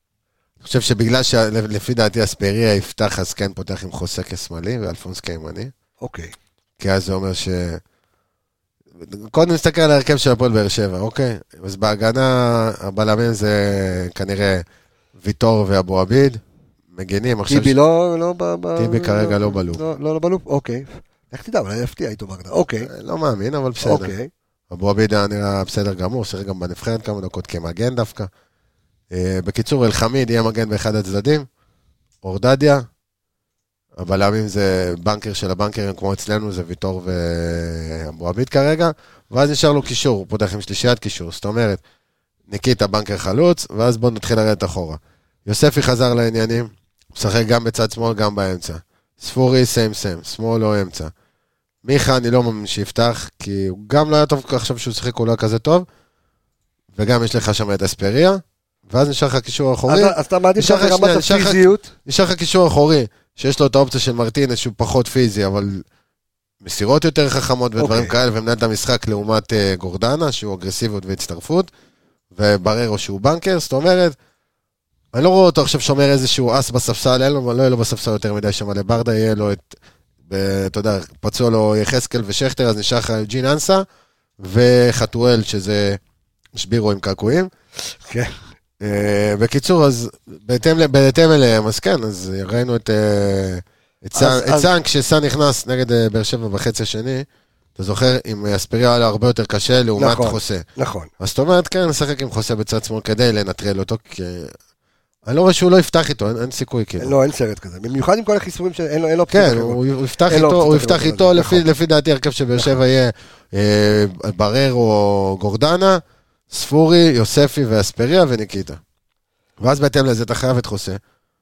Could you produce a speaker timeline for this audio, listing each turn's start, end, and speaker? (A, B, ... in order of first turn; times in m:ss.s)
0:00.6-0:05.7 A
0:06.0-0:06.3 B
0:06.8-0:07.8 A
0:09.0-0:14.6 A
0:15.2-0:16.4 A
0:16.9-0:17.8 A
0:17.5-0:22.9 B
0:18.8-0:19.8 A
0:22.8-0:24.1 A
0:23.8-0:24.3 B
0:24.7-0:28.3 A
0:29.1-0:31.5 A
0:32.2-0:32.9 A
0:34.0-0:41.8 A
0:42.5-0:51.1 A
0:51.8-0:55.9 A
0:57.0-1:05.8 A
0:59.9-1:01.9 B
1:06.6-1:11.7 A
1:07.8-1:08.1 B
1:12.3-1:14.2 A
1:15.1-1:19.8 A
1:20.3-1:23.8 A
1:24.4-1:26.0 A
1:26.5-1:27.5 A
1:28.1-1:28.4 B
1:28.8-1:37.3 A
1:34.2-1:34.7 B
1:37.8-1:40.6 A
1:40.0-1:41.1 B
1:41.2-1:44.5 A
1:45.3-1:47.2 A
1:47.0-1:51.6 B
1:49.3-1:58.8 A
1:59.6-2:01.0 A